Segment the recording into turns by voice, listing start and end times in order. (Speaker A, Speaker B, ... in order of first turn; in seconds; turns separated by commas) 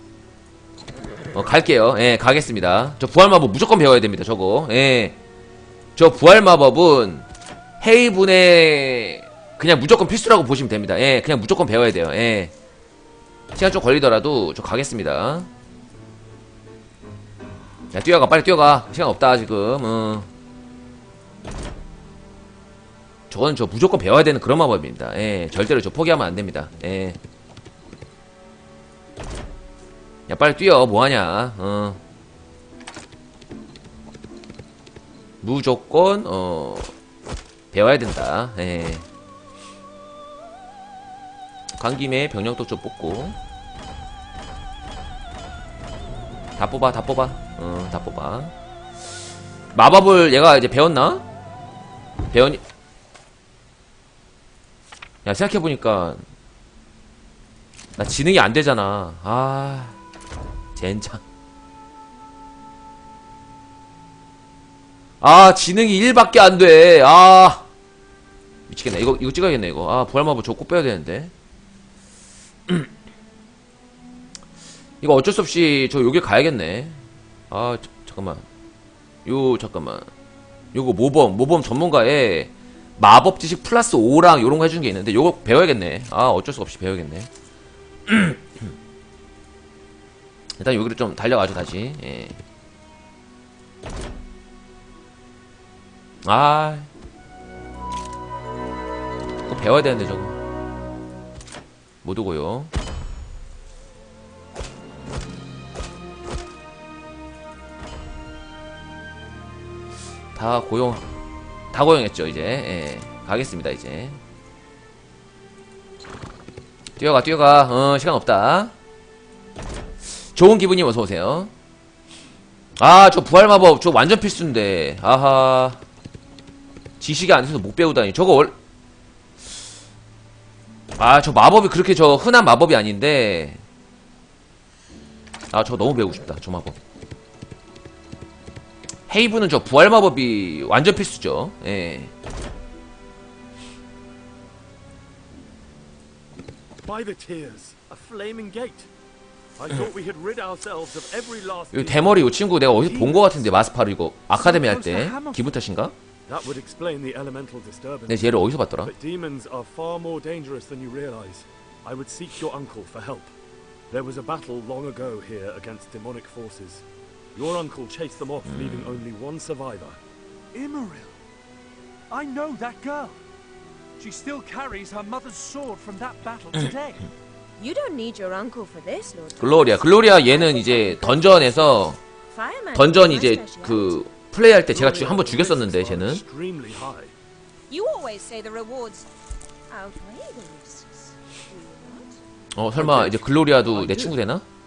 Speaker A: 1.3-5.2, Speaker A: 6.0-7.3, Speaker A: 7.8-12.5, Speaker A: 13.6-15.5, Speaker A: 17.9-20.3, Speaker A: 23.3-27.2, Speaker A: 30.3-32.0, Speaker A: 35.4-36.9, Speaker A: 37.7-39.1, Speaker A: 41.8-43.4, Speaker A: 46.6-48.5, Speaker A: 49.7-51.3, Speaker A: 52.3-52.6, Speaker A: 55.2-56.3, Speaker A: 58.0-60.0, Speaker A: 60.8-61.2, Speaker A: 65.2-67.7, Speaker A: 68.7-71.3, Speaker A: 75.0-78.5, Speaker A: 79.2-80.1, Speaker A: 80.7-87.3, Speaker A: 88.1-88.5, Speaker A: 90.6-92.4, Speaker A: 96.2-96.9, Speaker A: 99.5-100.4, Speaker A: 102.0-102.7, Speaker A: 110.3-111.1, Speaker A: 111.7-114.2, Speaker A: 117.0-118.7, Speaker A: 120.1-121.5, Speaker A: 122.8-125.8, Speaker A: 127.0-128.6, Speaker A: 131.0-133.6, Speaker A: 135.5-136.8, Speaker A: 139.1-142.1, Speaker B: 146.8-148.9, Speaker B: 149.6-152.2, Speaker A: 151.7-155.9, Speaker C: 152.8-153.4, Speaker C: 154.3-155.6, Speaker B: 156.3-163.3, Speaker A: 158.1-158.9, Speaker B: 163.9-170.0, Speaker A: 168.5-169.0, Speaker C: 170.5-171.2, Speaker C: 172.1-173.2, Speaker C: 174.0-177.1, Speaker D: 177.6-184.0, Speaker A: 179.4-182.0, Speaker A: 182.7-186.2, Speaker B: 184.7-187.1, Speaker D: 187.7-189.1, Speaker D: 189.7-192.2, Speaker A: 192.5-194.5, Speaker B: 192.8-194.2